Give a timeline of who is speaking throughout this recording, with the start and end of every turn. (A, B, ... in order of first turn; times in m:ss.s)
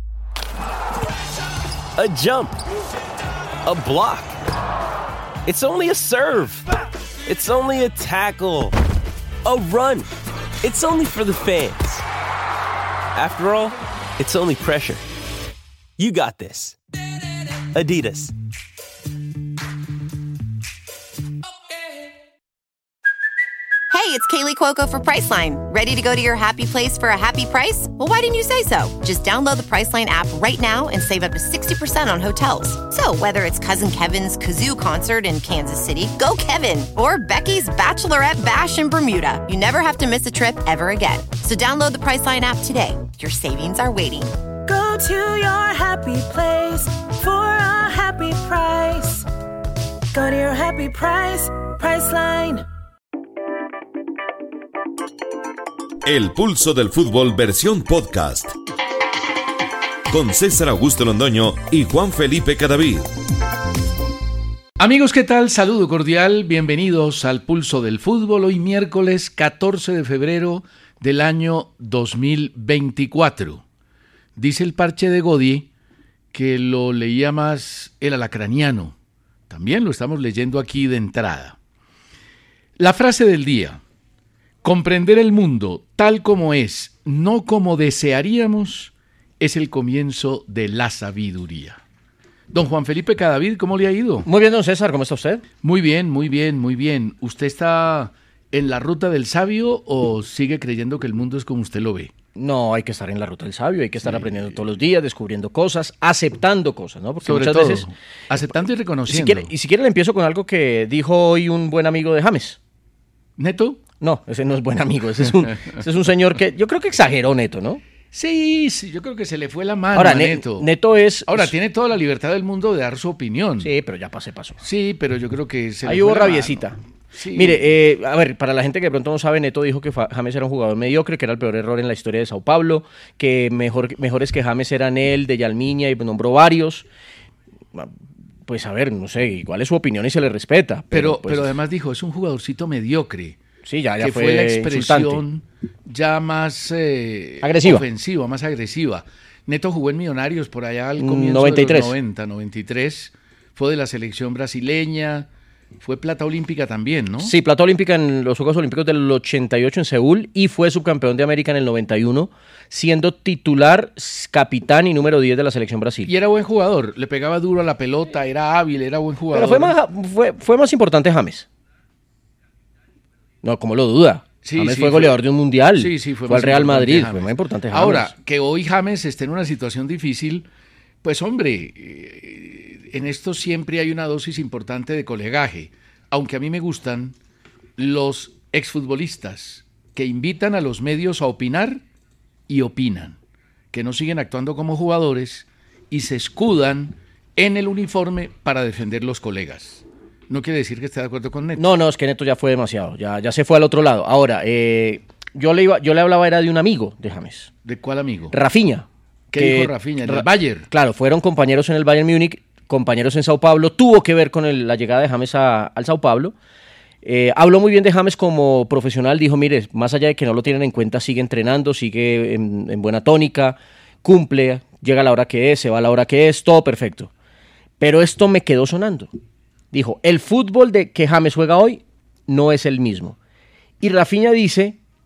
0:02.0-0:02.6 A
0:03.6-0:04.4 A
0:05.4-0:06.7 A
0:07.2-0:08.7 A
0:09.4-0:10.1 A
0:10.6-0:12.0 A
0:13.1-0:15.0 A
0:16.0-0:16.8 A
0:17.7-0:18.3 A
0:23.9-0:44.3 B
0:44.6-0:49.2 C
0:50.1-0:52.6 C
0:56.0-0:58.5 D
1:00.1-1:03.1 D
1:04.8-1:13.6 E
1:14.4-1:15.7 E
1:16.3-1:18.9 E
1:19.5-1:21.6 E
1:22.8-1:23.8 E
1:24.6-1:31.8 E
1:32.5-1:34.3 E
1:34.2-1:35.4 F
1:35.6-1:42.1 E
1:42.3-1:47.9 F
1:44.0-1:44.5 E
1:47.2-1:49.5 E
1:49.1-1:52.6 F
1:53.4-1:53.8 E
1:54.0-1:57.8 F
1:58.1-2:00.7 E
1:59.9-2:01.5 F
2:01.3-2:03.7 E
2:03.6-2:04.6 F
2:04.6-2:07.6 E
2:05.8-2:06.8 F
2:07.3-2:16.8 F
2:18.5-2:21.5 F
2:20.9-2:23.4 E
2:23.6-2:25.2 F
2:24.0-2:35.3 E
2:27.4-2:27.8 F
2:31.0-2:31.9 F
2:35.8-2:37.3 E
2:37.2-2:46.1 F
2:46.0-2:49.8 E
2:49.3-2:51.5 F
2:53.4-2:58.1 F
2:54.4-2:55.2 E
2:55.7-3:00.5 E
3:01.0-3:07.2 E
3:07.8-3:11.8 E
3:12.5-3:13.2 E
3:13.7-3:21.7 E
3:21.6-3:27.5 F
3:27.6-3:28.3 E
3:28.3-3:36.3 F
3:29.3-3:30.7 E
3:37.0-3:47.1 F
3:47.8-3:49.1 F
3:49.7-3:53.2 F
3:53.8-3:54.8 F